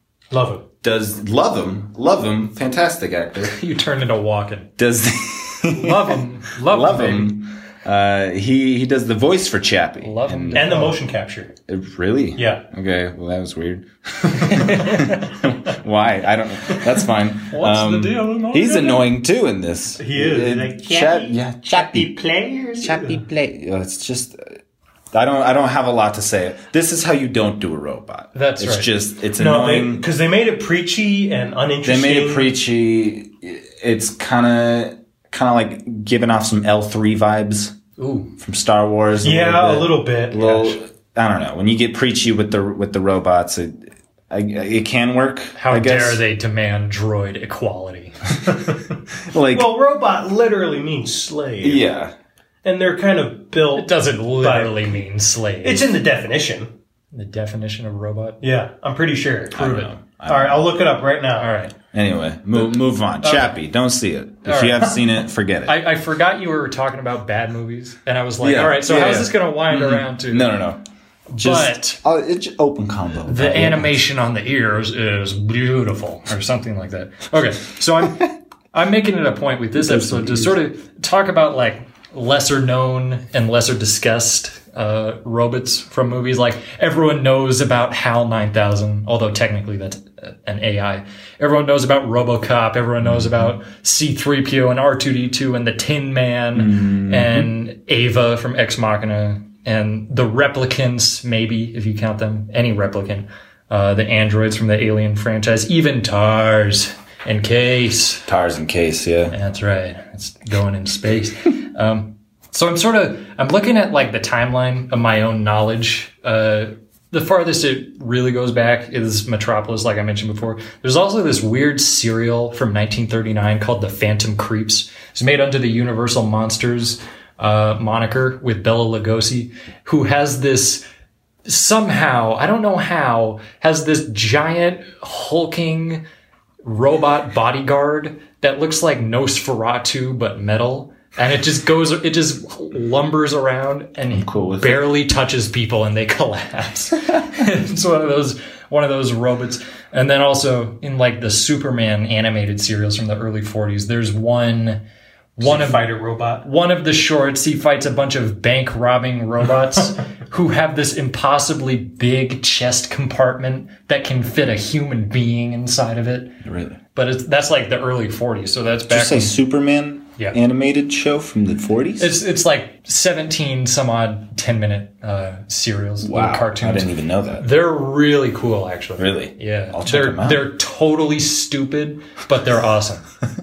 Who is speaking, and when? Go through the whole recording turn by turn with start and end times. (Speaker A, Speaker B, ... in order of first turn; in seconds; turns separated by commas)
Speaker A: 0.3-0.7, Speaker B: 0.8-3.6, Speaker C: 3.4-4.7, Speaker B: 4.8-10.9, Speaker C: 5.7-7.4, Speaker C: 10.0-11.0, Speaker A: 10.5-11.5, Speaker B: 11.7-22.2, Speaker A: 12.4-12.6, Speaker C: 14.5-15.2, Speaker A: 17.4-19.1, Speaker A: 20.0-23.2, Speaker B: 22.8-24.6, Speaker B: 25.1-30.0, Speaker C: 28.3-28.9, Speaker A: 29.4-32.5, Speaker B: 31.8-37.8, Speaker C: 38.0-38.3, Speaker B: 38.4-46.2, Speaker A: 39.2-40.8, Speaker C: 45.6-48.3, Speaker B: 49.3-49.7, Speaker A: 49.5-51.9, Speaker B: 51.6-52.1, Speaker A: 52.6-55.0, Speaker C: 53.7-55.9, Speaker A: 55.6-56.7, Speaker C: 57.1-58.4, Speaker A: 58.4-59.6, Speaker B: 59.5-60.7, Speaker C: 59.5-59.9, Speaker A: 60.2-61.5, Speaker C: 61.4-61.7, Speaker B: 61.9-65.8, Speaker C: 63.2-63.5, Speaker C: 64.4-65.0, Speaker C: 65.7-70.5, Speaker B: 68.4-70.8, Speaker C: 71.3-72.0, Speaker B: 71.4-74.0, Speaker C: 73.3-108.3, Speaker B: 79.7-80.6, Speaker B: 93.0-93.5, Speaker B: 96.5-97.5, Speaker B: 108.3-109.3, Speaker C: 109.3-130.8, Speaker C: 131.4-136.0, Speaker C: 136.6-154.8, Speaker B: 144.1-144.8, Speaker C: 155.3-155.8, Speaker A: 155.4-156.4, Speaker C: 156.4-166.3, Speaker B: 166.4-166.8, Speaker C: 166.9-169.3, Speaker B: 168.9-172.1, Speaker C: 172.0-183.0, Speaker B: 176.0-177.5, Speaker B: 179.0-180.5